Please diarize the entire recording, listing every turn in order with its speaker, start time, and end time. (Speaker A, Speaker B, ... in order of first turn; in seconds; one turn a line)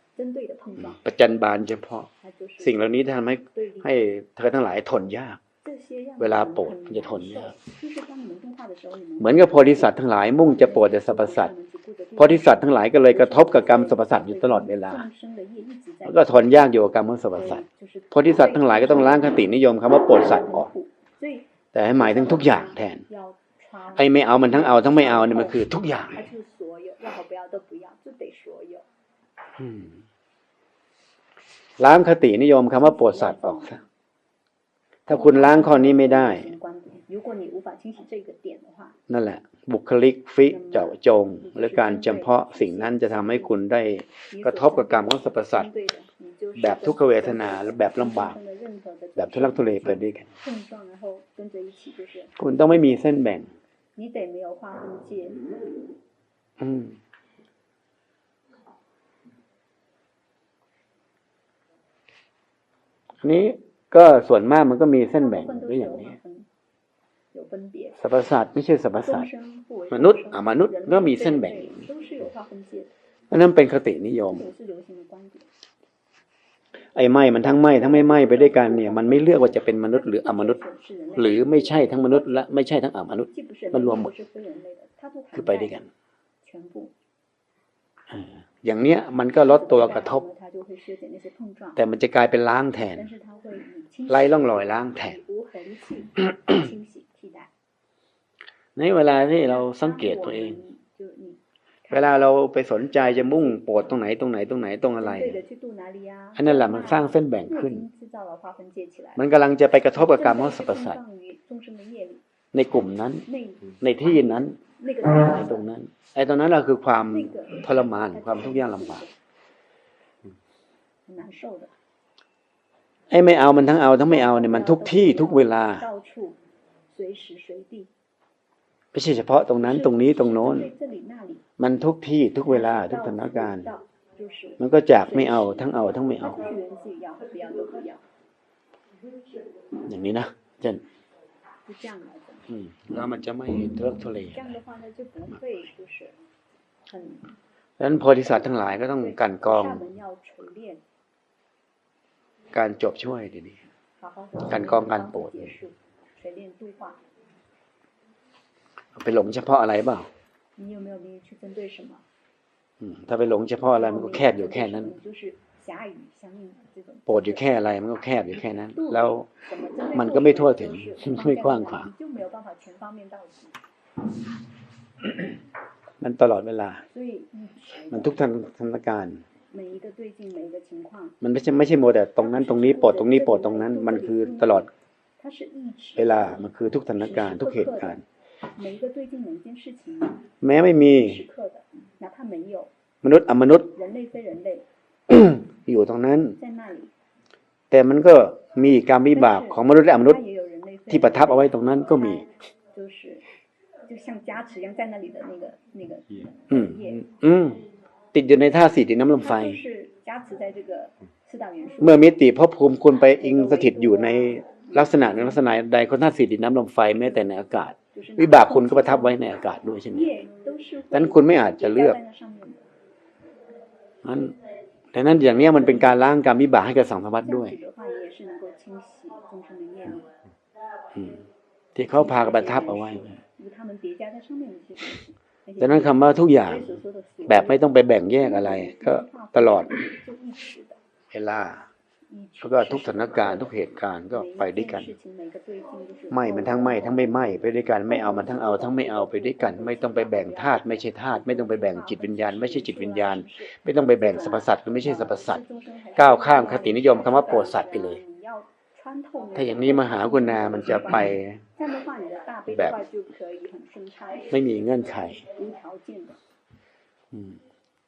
Speaker A: 0.1-1.0
Speaker B: 0.8-5.4
Speaker A: 2.2-2.9
Speaker A: 3.5-3.9
Speaker A: 5.6-16.4
Speaker B: 6.2-7.5
Speaker B: 9.2-11.5
Speaker B: 12.2-15.1
Speaker B: 16.1-20.7
Speaker A: 17.3-19.4
Speaker A: 20.1-25.6
Speaker B: 21.7-23.0
Speaker B: 24.0-26.3
Speaker A: 26.1-28.9
Speaker B: 29.6-30.0
Speaker B: 31.8-33.8
Speaker A: 32.7-33.9
Speaker B: 35.1-36.5
Speaker A: 35.1-39.0
Speaker B: 39.1-45.7
Speaker A: 40.5-43.5
Speaker A: 44.3-52.4
Speaker B: 46.6-48.4
Speaker B: 49.2-50.3
Speaker B: 52.4-53.5
Speaker A: 54.0-55.5
Speaker B: 56.6-57.0
Speaker B: 63.2-66.2
Speaker A: 65.2-66.5
Speaker A: 67.3-68.0
Speaker B: 68.0-69.3
Speaker A: 69.0-72.9
Speaker B: 69.9-71.9
Speaker B: 73.3-74.5
Speaker A: 74.3-75.5
Speaker B: 77.0-80.6
Speaker A: 77.7-82.5
Speaker B: 81.2-84.1
Speaker A: 83.3-85.8
Speaker B: 85.3-85.9
Speaker A: 86.4-86.9
Speaker B: 88.1-90.2
Speaker A: 89.4-91.8
Speaker B: 91.8-93.1
Speaker A: 92.9-97.5
Speaker B: 94.1-95.2
Speaker B: 98.8-100.6
Speaker A: 99.4-102.3
Speaker B: 101.9-105.4
Speaker A: 105.0-109.2
Speaker B: 106.4-107.8
Speaker B: 109.2-111.0
Speaker A: 109.9-112.2
Speaker B: 112.5-113.2
Speaker A: 113.3-113.8
Speaker B: 113.8-114.6
Speaker A: 114.8-115.6
Speaker B: 115.1-119.0
Speaker A: 117.1-119.1
Speaker A: 121.1-121.7
Speaker B: 123.1-125.9
Speaker A: 124.1-126.4
Speaker A: 126.9-127.9
Speaker B: 128.9-130.7
Speaker A: 129.6-131.4
Speaker B: 131.6-133.7
Speaker A: 132.5-138.0
Speaker B: 134.6-136.5
Speaker B: 139.9-140.8
Speaker A: 141.7-142.5
Speaker B: 142.5-144.6
Speaker A: 144.3-146.1
Speaker A: 146.9-147.3
Speaker B: 147.8-149.8
Speaker A: 148.9-150.8
Speaker B: 152.5-153.7
Speaker A: 154.0-157.0
Speaker B: 154.5-155.5
Speaker B: 159.0-160.1
Speaker A: 160.6-162.1
Speaker B: 162.8-164.9
Speaker A: 163.7-167.5
Speaker B: 167.1-169.3
Speaker A: 168.7-173.6
Speaker B: 169.9-171.9
Speaker B: 176.0-176.8
Speaker A: 176.9-178.2
Speaker B: 177.9-179.2
Speaker A: 179.5-181.2
Speaker B: 181.2-184.7
Speaker A: 182.2-184.7
Speaker A: 185.2-186.4
Speaker B: 186.0-188.0
Speaker A: 187.0-188.0
Speaker A: 188.6-190.3
Speaker B: 190.4-191.2
Speaker A: 190.8-192.7
Speaker B: 193.0-193.7
Speaker A: 193.7-194.7
Speaker B: 195.1-196.4
Speaker A: 196.4-196.9
Speaker B: 197.7-200.2
Speaker A: 199.1-203.3
Speaker B: 200.9-202.3
Speaker A: 203.8-207.2
Speaker B: 206.5-207.6
Speaker B: 208.1-209.6
Speaker A: 209.2-212.1
Speaker B: 211.8-220.2
Speaker A: 213.1-215.4
Speaker A: 217.9-219.2
Speaker A: 219.9-222.7
Speaker B: 220.9-222.0
Speaker B: 224.0-224.4
Speaker B: 224.9-227.6
Speaker A: 225.5-226.1
Speaker A: 227.2-230.1
Speaker B: 230.9-233.2
Speaker A: 231.9-240.8
Speaker B: 235.6-239.7
Speaker B: 241.1-241.7
Speaker A: 242.1-264.5
Speaker B: 242.4-244.9
Speaker B: 246.1-255.4
Speaker B: 256.0-258.0
Speaker B: 259.4-261.4
Speaker B: 262.5-262.8
Speaker B: 264.3-265.2
Speaker A: 265.1-266.2
Speaker B: 267.1-267.4